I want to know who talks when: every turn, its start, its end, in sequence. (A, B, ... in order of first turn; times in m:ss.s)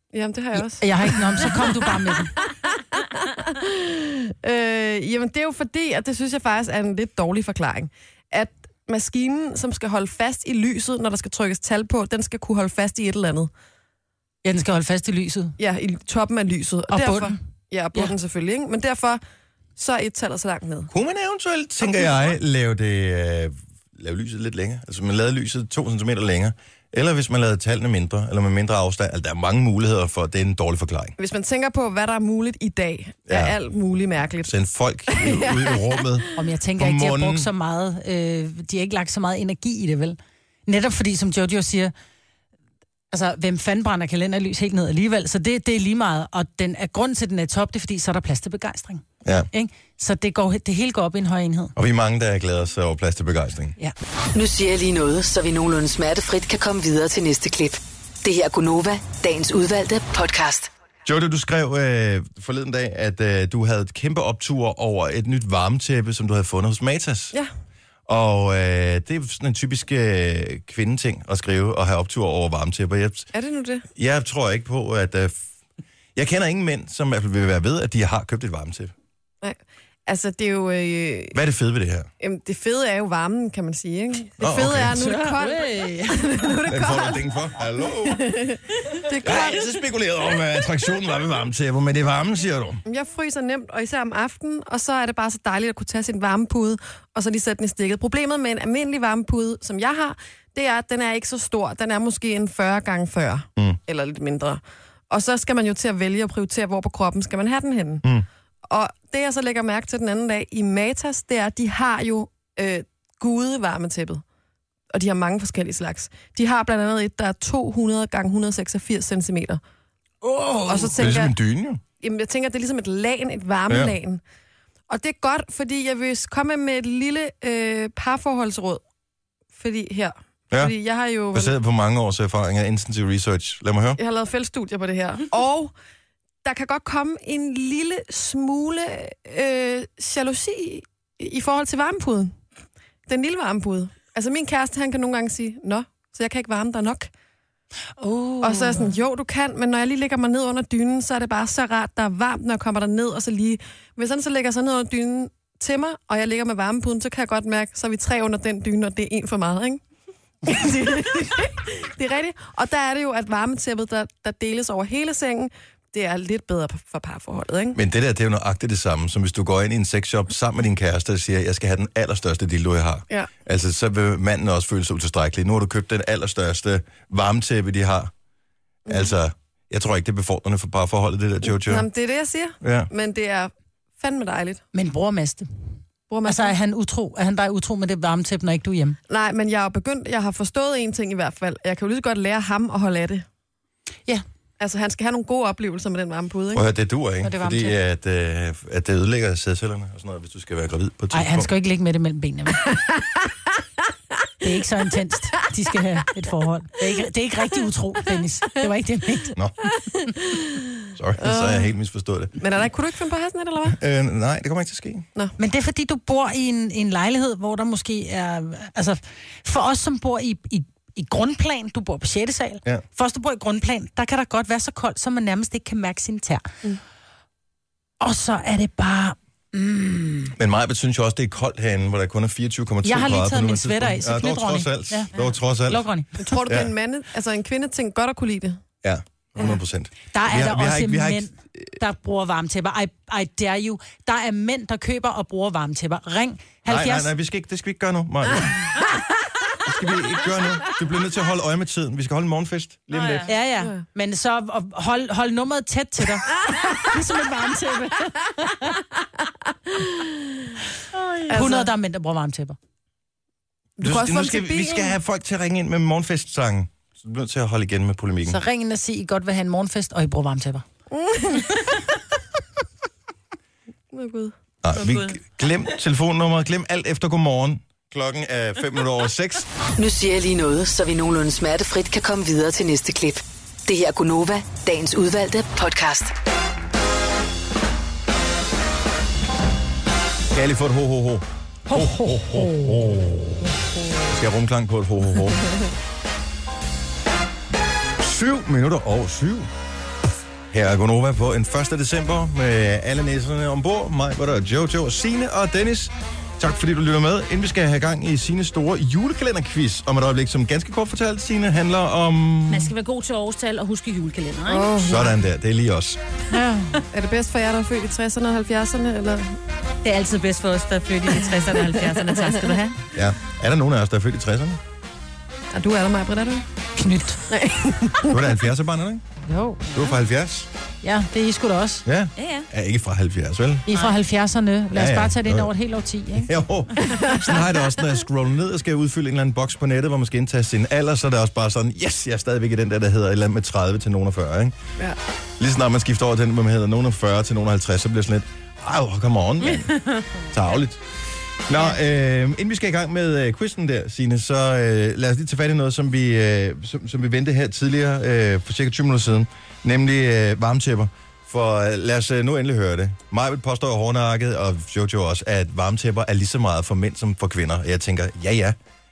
0:00.1-0:13.5 A
0:00.6-0:02.4 B
0:14.4-0:15.6 B
0:15.6-0:19.2 A
0:16.9-0:17.4 B
0:19.8-0:20.9 A
0:20.9-0:31.1 C
0:31.2-0:34.6 A
0:33.3-0:33.5 C
0:34.4-0:37.5 C
0:35.1-0:36.2 A
0:36.4-0:41.9 B
0:43.1-0:51.7 B
0:51.8-0:53.8 C
0:54.3-1:00.7 D
1:01.0-1:07.3 C
1:08.1-1:13.3 C
1:13.3-1:13.8 A
1:14.0-1:15.4 C
1:16.1-1:18.9 C
1:19.4-1:21.4 A
1:21.3-1:22.1 C
1:22.2-1:27.3 A
1:24.4-1:25.0 C
1:24.9-1:26.3 B
1:26.7-1:28.2 C
1:28.0-1:29.7 A
1:29.2-1:32.8 C
1:32.8-1:48.0 A
1:48.7-1:54.2 A
1:54.9-1:59.6 A
2:00.2-2:00.7 B
2:00.7-2:01.3 A
2:00.7-2:01.8 C
2:02.0-2:04.2 A
2:03.7-2:03.9 C
2:04.9-2:08.8 A
2:09.6-2:11.5 A
2:11.3-2:14.0 C
2:14.0-2:15.7 A
2:16.4-2:22.3 A
2:23.1-2:27.1 A
2:28.0-2:28.9 B
2:28.4-2:39.8 A
2:40.4-2:47.8 A
2:47.7-2:58.1 C
2:58.9-2:59.1 A
2:58.9-3:01.8 C
3:01.5-3:04.6 A
3:02.6-3:02.9 C
3:04.7-3:05.5 B
3:06.1-3:06.6 A
3:06.2-3:09.0 B
3:09.1-3:13.2 A
3:14.6-3:16.6 A
3:16.5-3:21.5 C
3:17.2-3:17.8 B
3:21.1-3:22.7 B
3:24.4-3:29.3 B
3:29.9-3:31.7 A
3:30.9-3:32.4 C
3:32.4-3:33.8 A
3:33.7-3:35.0 C
3:35.4-3:46.5 B
3:48.0-3:50.3 B
3:50.4-3:55.8 C
3:52.8-3:55.1 B
3:55.6-3:56.3 B
3:56.2-3:58.6 A
3:58.8-4:01.7 C
4:00.1-4:07.1 B
4:06.6-4:08.7 C
4:09.6-4:13.3 C
4:12.9-4:13.3 E
4:13.3-4:18.7 B
4:19.7-4:20.6 A
4:21.0-4:21.3 E
4:21.3-4:21.7 A
4:21.3-4:22.6 B
4:23.8-4:25.0 A
4:23.8-4:28.4 C
4:28.2-4:30.6 B
4:30.9-4:31.6 A
4:33.9-4:34.3 A
4:34.6-4:39.5 C
4:34.8-4:35.1 E
4:39.8-4:46.1 D
4:50.3-4:53.4 C
4:51.7-4:52.9 B
4:54.1-4:55.5 C
4:58.0-4:59.5 C
5:00.5-5:12.7 C
5:12.5-5:14.8 E
5:14.5-5:15.2 A
5:14.8-5:16.0 C
5:16.3-5:16.8 B
5:16.9-5:19.4 A
5:19.8-5:22.8 E
5:21.6-5:22.4 A
5:22.9-5:24.6 C
5:25.5-5:26.4 A
5:26.8-5:27.2 B
5:27.3-5:28.3 A
5:28.0-5:29.0 C
5:29.2-5:29.7 B
5:29.7-5:30.5 C
5:30.8-5:31.8 B
5:31.8-5:33.6 C
5:32.2-5:32.5 E
5:33.7-5:36.3 B
5:33.7-5:34.0 E
5:34.7-5:35.5 C
5:36.2-5:44.5 C
5:45.4-5:49.8 C
5:49.5-5:50.1 E
5:50.3-5:50.8 C
5:51.4-6:08.6 C